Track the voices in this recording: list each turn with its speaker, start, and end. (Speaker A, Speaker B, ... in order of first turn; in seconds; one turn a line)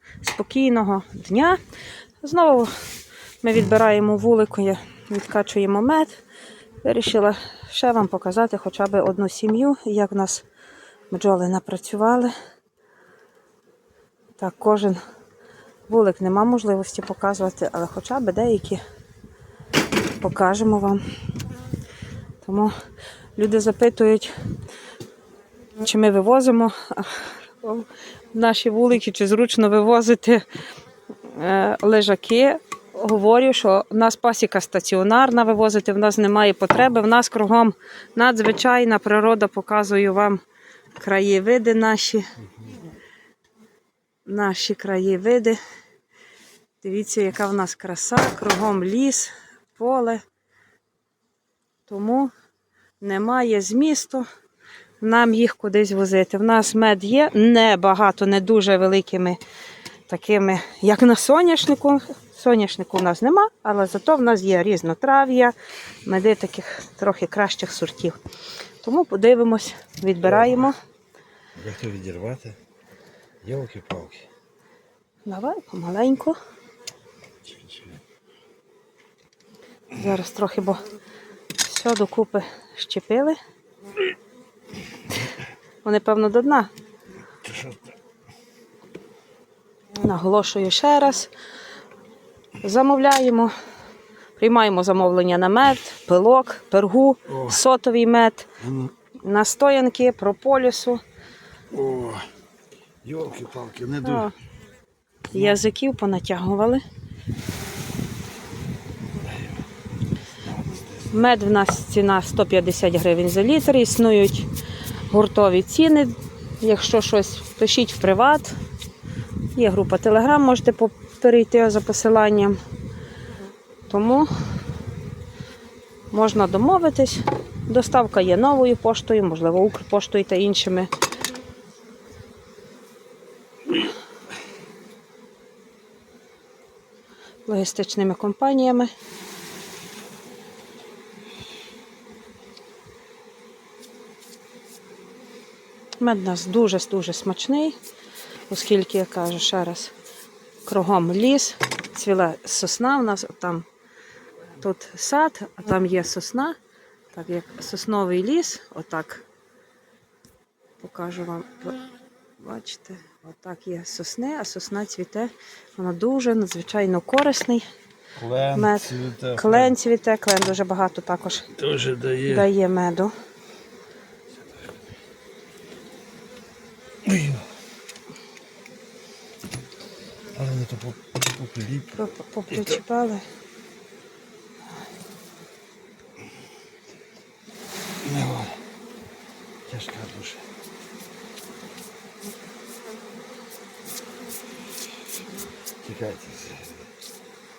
Speaker A: 0.2-1.6
Speaker A: 2.2-2.7
Speaker A: 3.4-6.2
Speaker A: 6.8-10.4
Speaker A: 11.1-12.3
Speaker A: 14.4-15.0
Speaker A: 15.9-18.8
Speaker A: 20.1-21.0
Speaker A: 22.4-22.7
Speaker A: 23.4-24.3
Speaker A: 25.8-30.4
Speaker A: 31.3-40.4
Speaker A: 41.0-42.3
Speaker A: 44.3-45.6
Speaker A: 46.8-50.2
Speaker A: 51.9-52.3
Speaker A: 53.0-54.3
Speaker A: 55.0-59.4
Speaker A: 60.1-68.2
Speaker A: 68.8-70.8
Speaker B: 71.6-72.6
Speaker B: 73.4-74.3
Speaker A: 75.3-76.4
Speaker B: 77.5-77.9
Speaker A: 79.9-80.8
Speaker A: 81.6-83.4
Speaker A: 85.8-86.7
Speaker B: 87.4-87.9
Speaker A: 90.0-91.3
Speaker A: 92.6-93.5
Speaker A: 94.4-98.5
Speaker B: 97.3-97.6
Speaker B: 98.6-98.9
Speaker A: 99.2-101.0
Speaker B: 101.7-102.2
Speaker B: 103.0-104.3
Speaker A: 104.0-104.3
Speaker A: 105.3-106.8
Speaker B: 110.5-110.8
Speaker A: 111.1-114.5
Speaker A: 115.1-118.5
Speaker A: 119.5-122.6
Speaker A: 123.9-124.3
Speaker A: 126.1-130.9
Speaker A: 137.5-138.9
Speaker A: 146.0-147.8
Speaker A: 148.5-149.9
Speaker A: 150.7-153.7
Speaker A: 154.6-156.6
Speaker A: 157.1-159.2
Speaker A: 160.8-161.8
Speaker A: 162.4-167.7
Speaker B: 168.2-169.8
Speaker A: 168.5-171.5
Speaker B: 171.6-172.5
Speaker A: 172.2-173.1
Speaker B: 177.1-177.4
Speaker B: 180.3-182.0
Speaker A: 181.9-183.2
Speaker B: 188.0-188.6
Speaker B: 189.7-190.5
Speaker B: 195.8-196.9